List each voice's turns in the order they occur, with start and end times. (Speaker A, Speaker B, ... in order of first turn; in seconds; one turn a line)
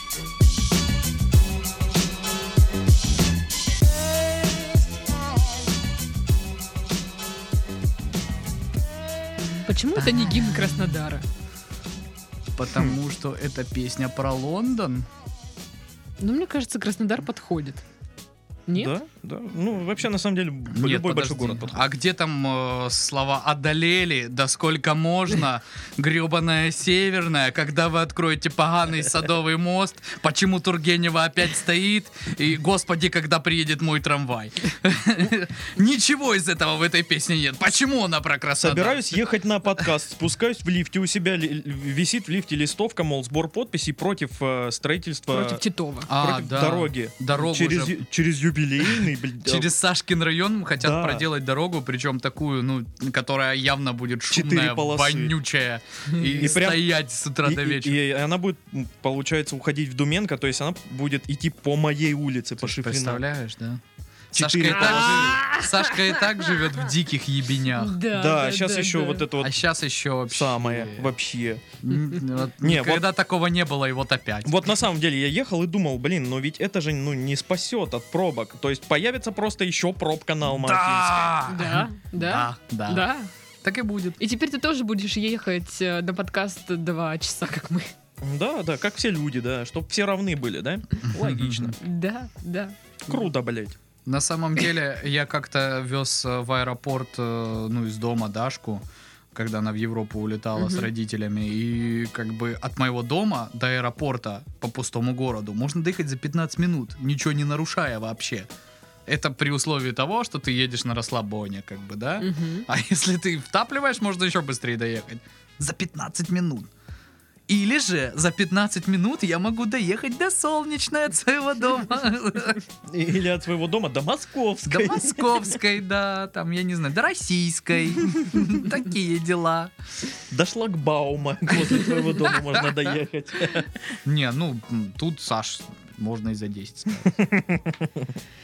Speaker A: 9.4-11.2
Speaker B: 10.0-10.8
Speaker B: 12.6-15.1
Speaker A: 16.2-17.8
Speaker A: 18.7-18.9
Speaker C: 18.8-21.8
Speaker B: 20.7-39.2
Speaker C: 38.6-45.6
Speaker A: 45.3-46.1
Speaker B: 46.1-48.0
Speaker C: 46.1-49.7
Speaker B: 49.4-58.0
Speaker C: 50.8-51.2
Speaker C: 54.3-55.3
Speaker C: 56.2-63.2
Speaker B: 62.6-63.8
Speaker B: 64.3-68.0
Speaker C: 64.3-65.4
Speaker A: 64.7-66.5
Speaker A: 67.7-69.3
Speaker C: 68.1-69.5
Speaker B: 69.4-71.1
Speaker C: 70.3-71.6
Speaker B: 71.8-74.5
Speaker C: 72.6-73.0
Speaker C: 74.5-81.4
Speaker B: 80.5-83.1
Speaker A: 81.5-83.3
Speaker B: 83.6-84.2
Speaker A: 84.2-87.9
Speaker C: 88.2-91.7
Speaker B: 91.0-91.8
Speaker A: 91.1-93.2
Speaker C: 93.1-93.8
Speaker B: 94.0-108.5
Speaker A: 100.5-100.9
Speaker B: 109.1-116.7
Speaker A: 112.2-112.7
Speaker B: 117.5-122.6
Speaker C: 122.9-125.3
Speaker B: 124.7-129.7
Speaker C: 130.3-133.8
Speaker B: 134.0-137.1
Speaker C: 137.2-137.9